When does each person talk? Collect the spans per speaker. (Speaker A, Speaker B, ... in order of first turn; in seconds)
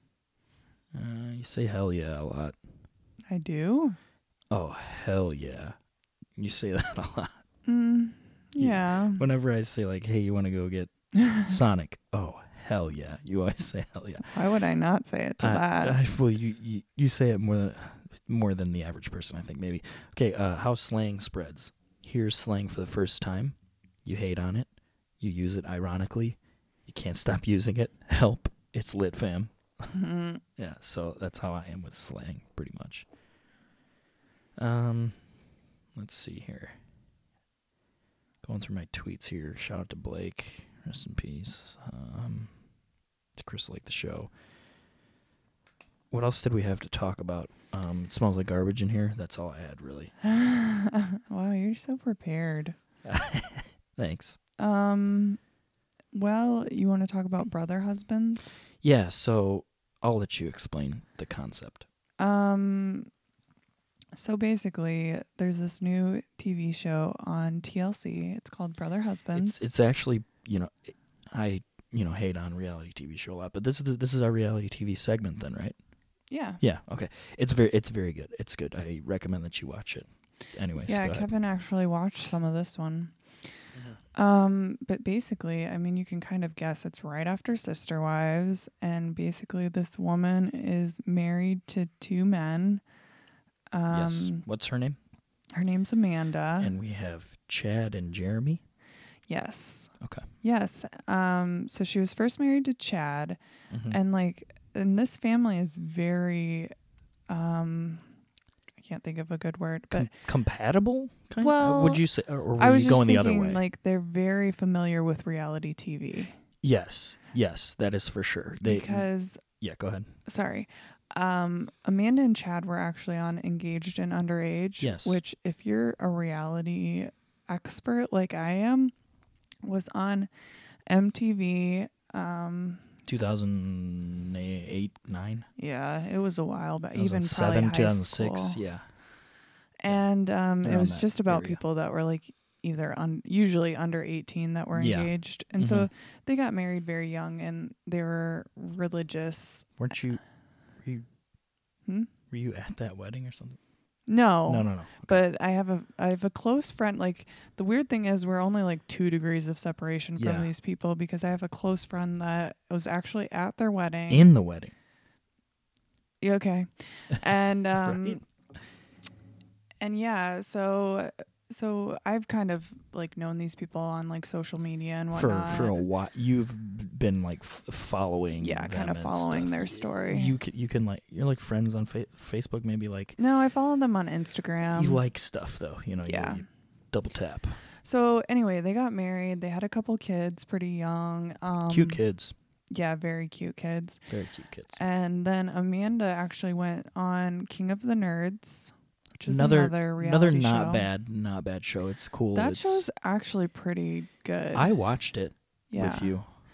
Speaker A: 0.9-2.5, 4.5-5.8, 6.3-7.4, 8.6-14.2, 15.4-24.7, 25.2-30.0, 30.6-33.0, 34.6-35.2, 35.9-36.8, 38.4-42.5, 43.4-44.3, 46.1-50.1, 53.0-54.4, 58.8-61.9, 69.3-75.8, 76.6-81.3, 93.9-95.0, 96.6-98.6, 100.0-100.3, 103.7-104.0, 109.9-113.6, 116.6-119.0, 119.6-120.1, 124.8-125.2, 133.1-135.5, 136.9-138.9, 140.6-141.6, 144.7-145.9, 149.8-150.2, 152.3-153.6, 154.5-155.2, 160.2-160.5, 164.1-164.7, 167.8-168.2, 175.1-183.2, 184.7-187.6, 191.7-192.3, 194.1-194.8, 199.2-202.9, 204.5-206.3
Speaker B: 3.3-4.0, 7.7-9.2, 11.1-11.5, 14.2-16.0, 29.9-30.4, 50.2-52.8, 54.6-55.4, 56.1-58.5, 62.2-63.1, 64.1-69.7, 76.3-76.6, 80.8-83.2, 84.1-92.8, 93.7-94.4, 95.5-96.7, 99.3-103.4, 103.9-106.7, 107.3-108.1, 108.8-110.1, 111.4-112.0, 112.6-116.4, 118.6-119.4, 120.3-128.9, 129.6-130.3, 130.9-132.9, 135.6-138.6, 139.8-149.7, 154.1-164.3, 166.2-168.2, 169.8-175.8, 178.4-180.3, 183.2-185.0, 186.1-186.4, 187.8-192.0, 192.7-194.0, 194.8-200.8, 202.3-204.7, 205.7-206.2